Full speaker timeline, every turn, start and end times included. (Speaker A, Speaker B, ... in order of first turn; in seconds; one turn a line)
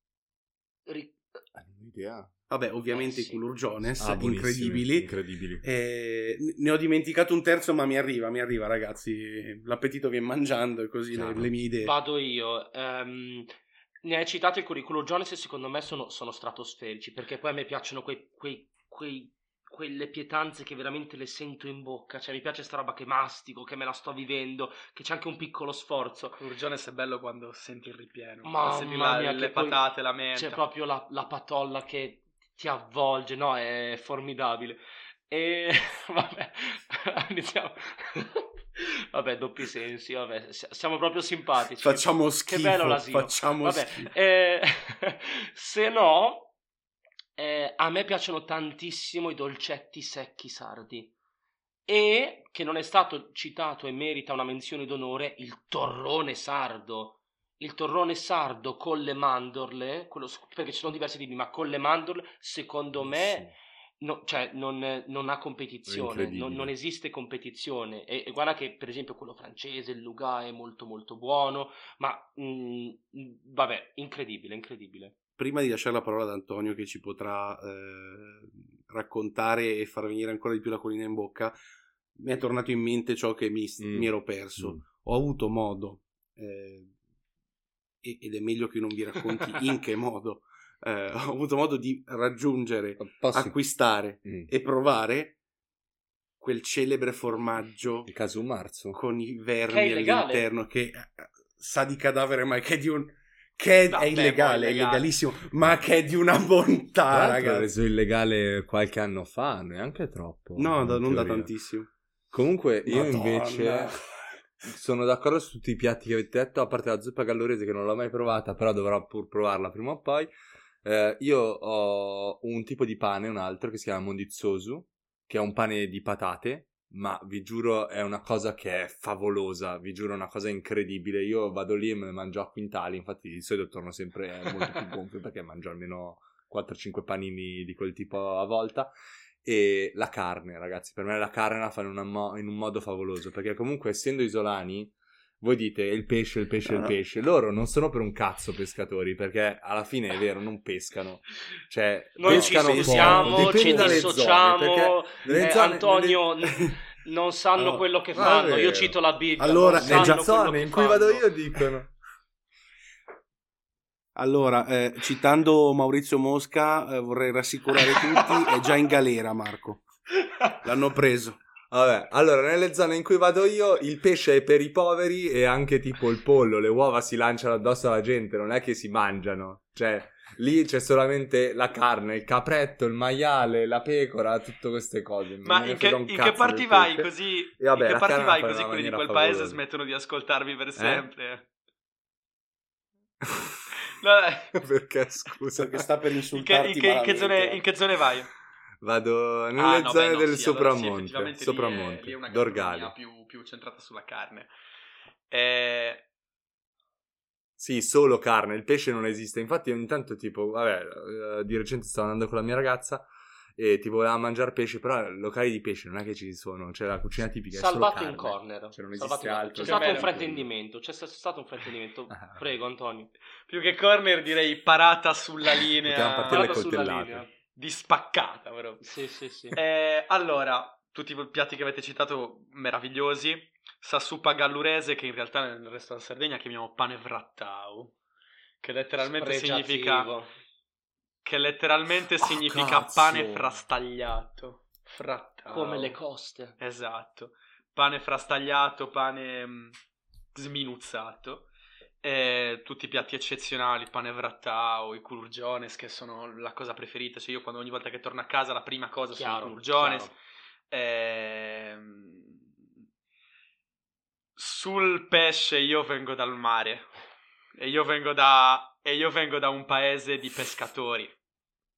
Speaker A: 0.8-1.4
Speaker B: 1.5-2.3
Speaker C: 2.5-5.1
Speaker A: 2.9-3.4
Speaker B: 4.0-5.6
Speaker C: 5.6-11.9
Speaker B: 11.1-11.5
Speaker A: 11.8-13.5
Speaker A: 14.0-26.4
Speaker D: 26.3-30.6
Speaker A: 28.4-46.5
Speaker C: 41.8-44.1
Speaker A: 47.4-51.1
Speaker A: 51.9-75.1
Speaker B: 63.0-63.5
Speaker B: 65.9-66.7
Speaker C: 75.4-81.6
Speaker C: 82.2-86.9
Speaker B: 83.8-84.8
Speaker C: 88.0-95.3
Speaker B: 93.0-93.6
Speaker B: 94.2-94.5
Speaker C: 96.4-98.1
Speaker B: 98.0-99.0
Speaker C: 98.9-107.7
Speaker A: 99.7-100.5
Speaker D: 103.9-105.1
Speaker B: 107.1-111.5
Speaker C: 110.6-111.9
Speaker B: 112.3-114.0
Speaker C: 112.8-114.0
Speaker B: 114.6-120.3
Speaker B: 120.8-138.9
Speaker B: 139.4-156.2
Speaker C: 146.7-146.9
Speaker A: 152.2-161.4
Speaker C: 152.2-154.1
Speaker B: 157.6-159.0
Speaker C: 159.4-160.3
Speaker B: 159.8-161.9
Speaker C: 164.2-169.8
Speaker C: 170.6-171.4
Speaker B: 171.7-189.6
Speaker D: 185.4-191.5
Speaker B: 190.8-191.1
Speaker B: 193.2-193.6
Speaker D: 193.9-194.6
Speaker B: 194.6-195.8
Speaker C: 195.5-197.6
Speaker D: 196.3-198.3
Speaker B: 198.8-202.9
Speaker D: 199.6-204.5
Speaker D: 205.3-206.1
Speaker B: 207.6-220.5
Speaker A: 217.5-223.1
Speaker D: 219.6-220.1
Speaker B: 222.1-222.4
Speaker D: 223.5-226.7
Speaker B: 225.8-227.3
Speaker A: 226.3-227.3
Speaker D: 227.5-228.9
Speaker A: 228.8-229.6
Speaker D: 229.5-237.9
Speaker D: 238.6-240.1
Speaker A: 239.0-240.3
Speaker D: 241.2-246.0
Speaker B: 242.3-243.5
Speaker A: 245.5-246.6
Speaker D: 246.6-249.8
Speaker D: 250.3-251.5
Speaker D: 252.0-260.1
Speaker A: 259.1-260.1
Speaker D: 260.7-262.4
Speaker D: 264.4-266.9
Speaker D: 267.5-271.1